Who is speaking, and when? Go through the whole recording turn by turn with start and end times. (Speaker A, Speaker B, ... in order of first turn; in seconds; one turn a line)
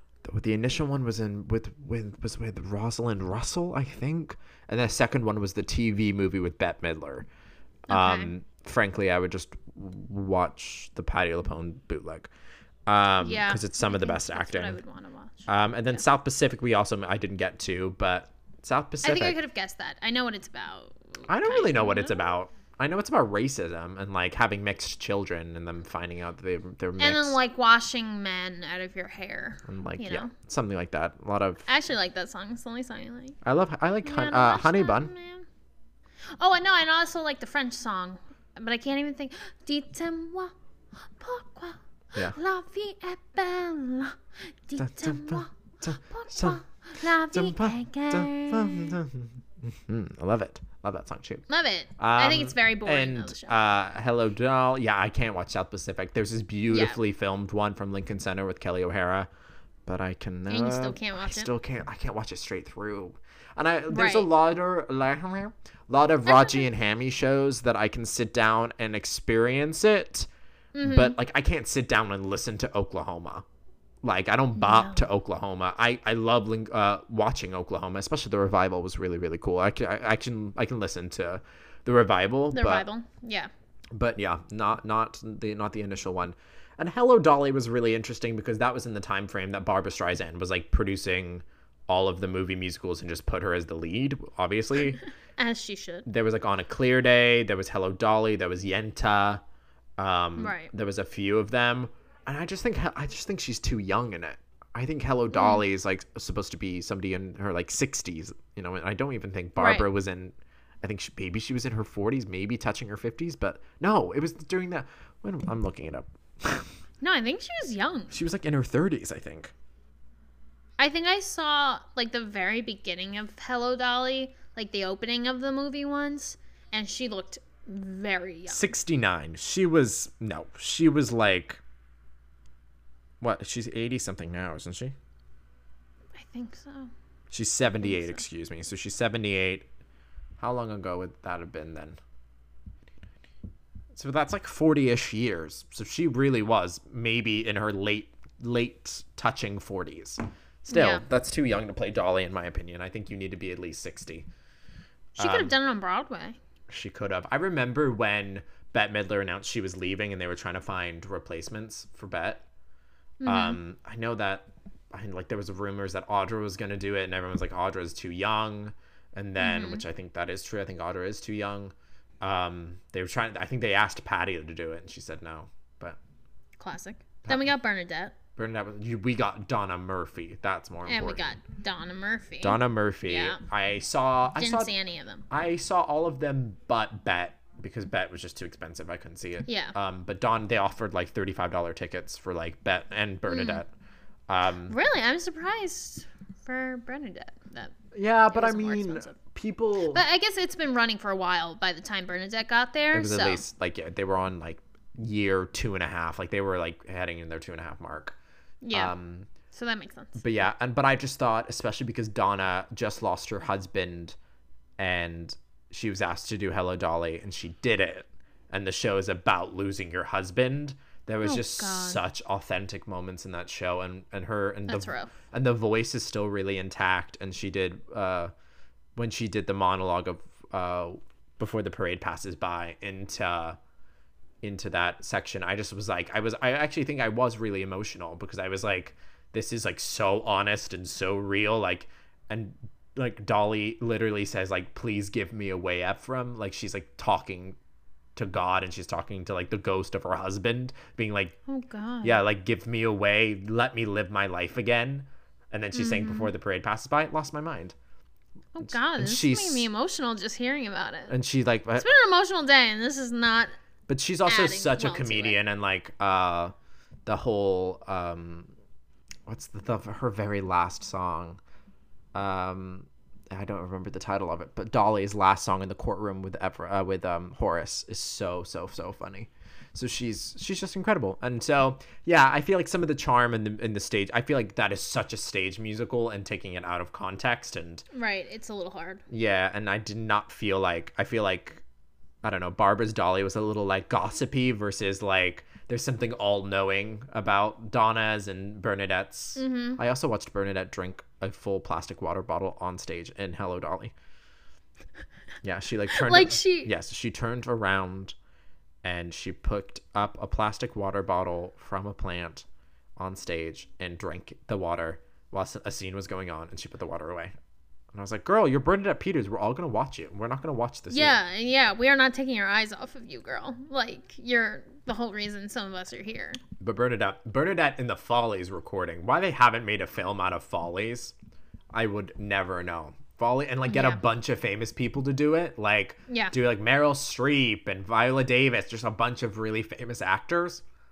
Speaker A: 0.2-7.3
Speaker A: 7.9-12.3
Speaker B: 7.9-8.3
Speaker A: 12.9-14.8
Speaker B: 13.2-15.5
Speaker A: 15.5-19.4
Speaker B: 19.0-22.2
Speaker A: 21.3-27.4
Speaker B: 27.0-30.3
Speaker A: 29.6-31.7
Speaker B: 31.7-33.4
Speaker A: 33.4-35.1
Speaker B: 34.0-35.5
Speaker B: 36.4-40.5
Speaker B: 41.2-49.0
Speaker A: 44.8-51.4
Speaker B: 51.5-53.5
Speaker A: 52.0-59.3
Speaker B: 56.7-57.0
Speaker A: 59.9-70.3
Speaker B: 60.5-61.5
Speaker B: 63.9-64.3
Speaker B: 66.2-66.7
Speaker B: 70.7-71.2
Speaker A: 70.8-73.4
Speaker A: 74.0-82.8
Speaker B: 74.6-75.1
Speaker B: 82.5-83.5
Speaker A: 83.9-95.0
Speaker B: 95.4-96.0
Speaker A: 96.0-99.4
Speaker A: 100.0-116.7
Speaker B: 100.4-100.7
Speaker B: 105.3-105.6
Speaker B: 109.6-109.9
Speaker B: 117.0-118.2
Speaker A: 118.1-119.5
Speaker B: 120.8-128.7
Speaker A: 128.5-131.6
Speaker A: 133.2-134.9
Speaker B: 136.1-136.9
Speaker A: 137.3-139.7
Speaker B: 137.8-138.2
Speaker A: 140.4-142.0
Speaker A: 143.9-154.3
Speaker B: 150.7-151.0
Speaker B: 155.1-156.4
Speaker A: 155.2-155.5
Speaker A: 156.7-162.4
Speaker B: 163.2-163.6
Speaker A: 163.2-176.0
Speaker B: 169.4-169.8
Speaker B: 176.6-178.1
Speaker A: 177.2-177.5
Speaker A: 178.3-181.3
Speaker B: 180.8-183.4
Speaker A: 182.4-184.7
Speaker B: 184.4-185.2
Speaker A: 185.3-193.7
Speaker B: 189.4-189.7
Speaker B: 193.3-193.6
Speaker A: 194.3-194.8
Speaker B: 194.7-197.8
Speaker A: 197.9-200.0
Speaker B: 198.3-199.2
Speaker B: 199.9-203.4
Speaker A: 202.9-208.2
Speaker B: 208.6-208.9
Speaker A: 208.7-209.3
Speaker B: 209.5-210.2
Speaker A: 210.2-214.2
Speaker A: 214.8-228.3
Speaker B: 221.2-222.0
Speaker B: 224.7-225.1
Speaker A: 228.9-233.6
Speaker A: 234.4-247.6
Speaker A: 248.1-251.3
Speaker B: 251.5-252.2
Speaker A: 252.0-257.8
Speaker B: 255.7-256.3
Speaker B: 258.5-261.1
Speaker A: 258.6-259.7
Speaker A: 261.1-261.9
Speaker B: 261.8-263.5
Speaker A: 263.9-266.5
Speaker B: 264.2-265.4
Speaker A: 267.1-268.5
Speaker A: 269.3-271.4
Speaker A: 272.1-287.9
Speaker B: 287.9-289.0
Speaker A: 289.1-291.6
Speaker A: 292.2-303.9
Speaker B: 299.4-299.8
Speaker A: 305.4-308.1
Speaker B: 305.9-306.7
Speaker A: 308.8-312.4
Speaker A: 313.0-317.3
Speaker A: 317.9-321.2
Speaker B: 320.9-326.4
Speaker A: 326.6-331.1
Speaker A: 331.7-340.6
Speaker B: 333.7-334.0
Speaker B: 336.1-336.3